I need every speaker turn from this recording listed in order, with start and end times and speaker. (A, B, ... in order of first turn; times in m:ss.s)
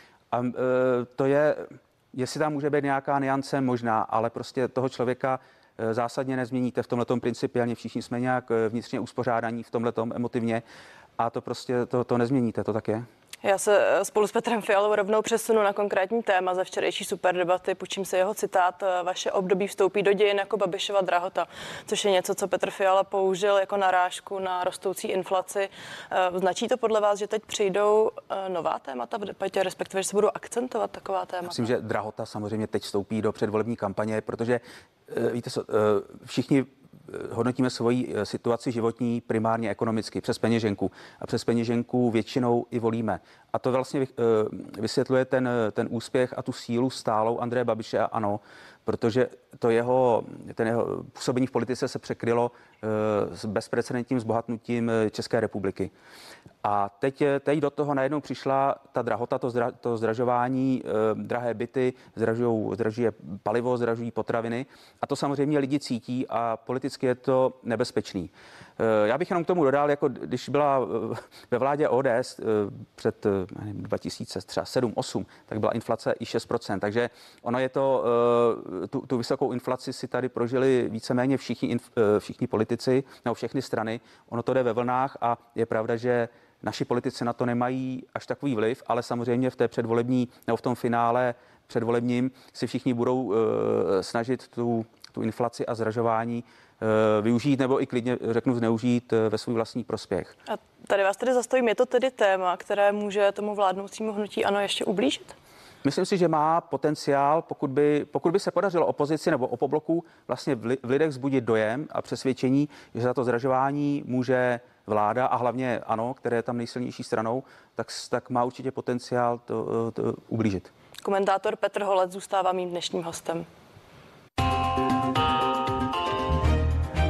0:00.3-0:10.6 A
0:11.2-0:13.1 A
0:13.4-0:31.7 B
0:31.5-0:55.9 A
0:56.6-1:40.4 A
1:40.5-1:45.3 B
1:45.8-2:00.7 A
2:01.0-2:03.5 B